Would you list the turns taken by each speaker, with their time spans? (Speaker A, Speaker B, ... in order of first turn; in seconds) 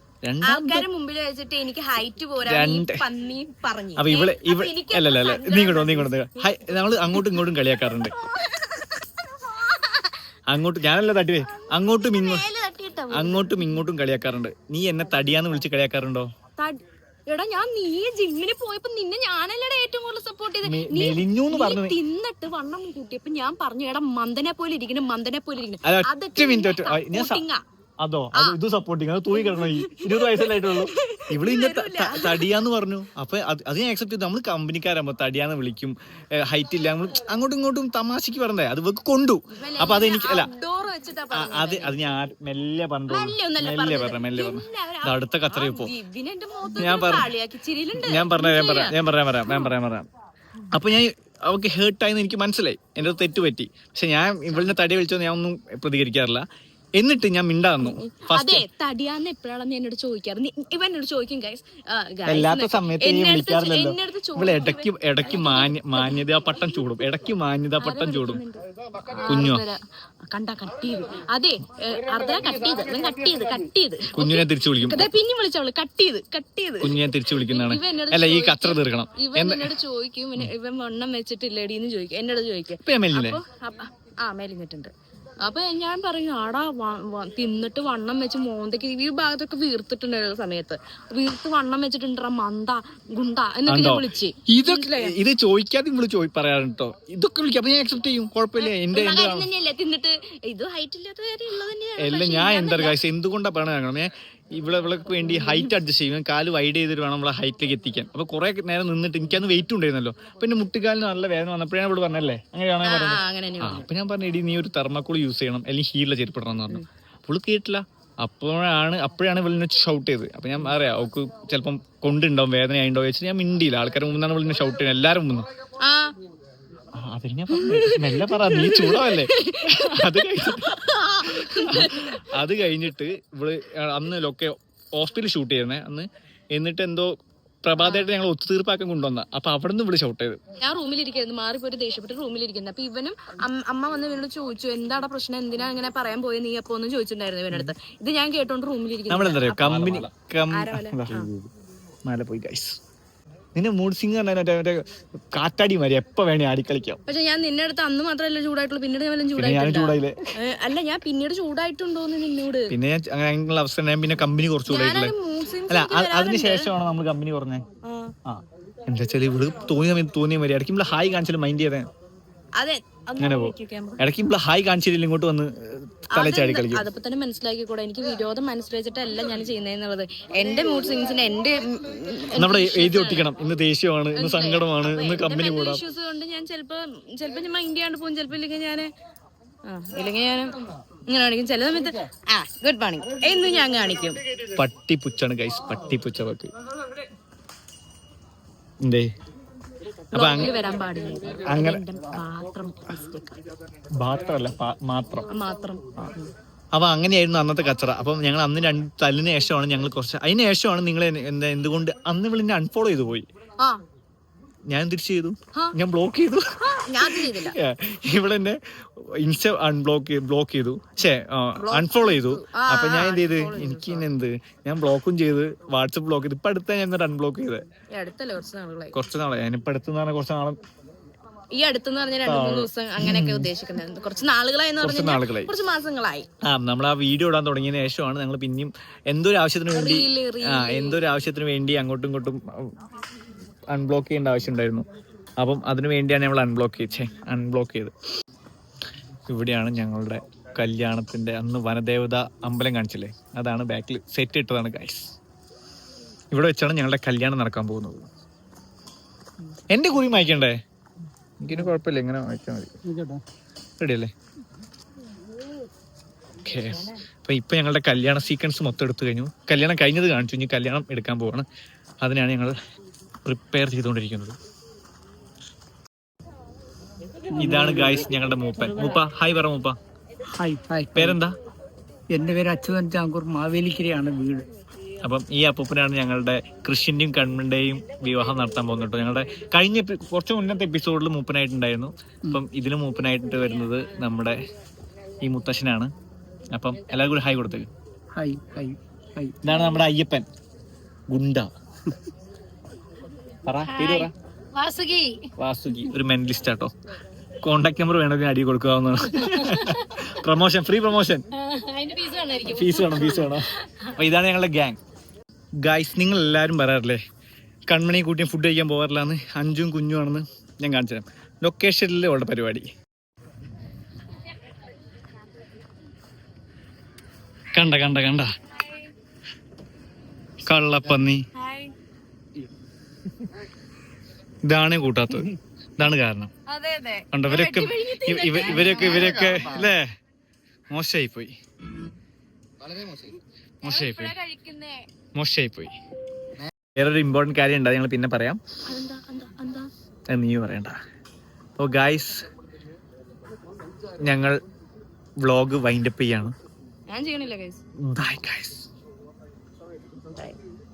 Speaker A: 0.2-0.9, 2.5-3.0, 4.0-8.2, 10.5-12.4, 13.1-16.3, 20.6-22.0, 25.8-27.4, 28.0-40.5, 41.3-46.0, 46.8-47.3, 48.0-50.1, 50.7-56.5, 57.0-58.6, 62.2-68.4, 69.1-69.6, 74.1-75.1, 76.8-79.7, 82.8-83.4, 93.7-99.5, 102.0-125.5, 127.0-137.1, 137.6-140.4, 149.1-151.3, 152.1-152.8, 153.6-157.0, 159.4-160.2, 162.7-165.2, 165.7-167.7, 168.3-171.9, 173.2-176.9, 182.3-185.8, 194.5-196.5, 200.1-200.5, 201.5-201.8, 204.0-205.3, 206.7-213.3, 214.7-227.7, 228.9-230.6, 232.2-233.5, 234.8-235.5, 236.4-242.8, 243.7-244.8, 245.4-247.9, 249.3-255.2, 256.3-258.1, 259.7-260.6, 261.4-262.7, 263.8-264.1, 266.4-271.5, 272.0-272.6, 273.2-274.4, 277.3-279.8, 280.9-281.4, 285.0-294.4, 295.2-295.9, 296.5-297.7, 299.4-300.3, 301.1-301.5, 303.5-304.1, 305.4-306.7, 307.4-311.3, 312.4-314.8, 315.6-317.0, 317.7-322.7, 327.5-328.3, 330.4-331.3, 334.4-336.3, 337.1-339.9, 340.7-341.3, 343.6-344.2, 345.2-345.7, 346.8-348.4, 350.1-350.8, 351.6-352.2, 354.0-354.4, 355.2-356.4, 357.8-358.7
Speaker B: 0.4-10.2, 11.6-13.6, 16.6-27.6, 29.3-32.6, 39.6-42.0, 43.1-49.7, 54.5-54.8, 57.8-66.2, 67.8-95.2, 98.6-103.0, 105.3-105.7, 112.8-113.9, 125.8-126.2, 127.5-132.4, 137.8-138.1, 140.6-151.3, 157.1-162.7, 164.7-166.7, 167.8-168.1, 172.6-174.0, 176.1-183.3, 184.1-188.9, 189.7-190.5, 191.1-194.2, 200.1-203.4, 205.3-206.3, 216.6-217.6, 221.6-224.1, 227.9-229.0, 231.5-236.3, 239.7-241.0, 303.7-305.9, 309.2-310.1, 311.3-314.0, 331.3-331.7, 336.5-339.5, 343.6-344.9, 348.7-349.7, 356.9-357.6
Speaker C: 262.9-263.2, 277.3-278.0, 280.3-281.2, 282.1-284.5, 298.1-299.4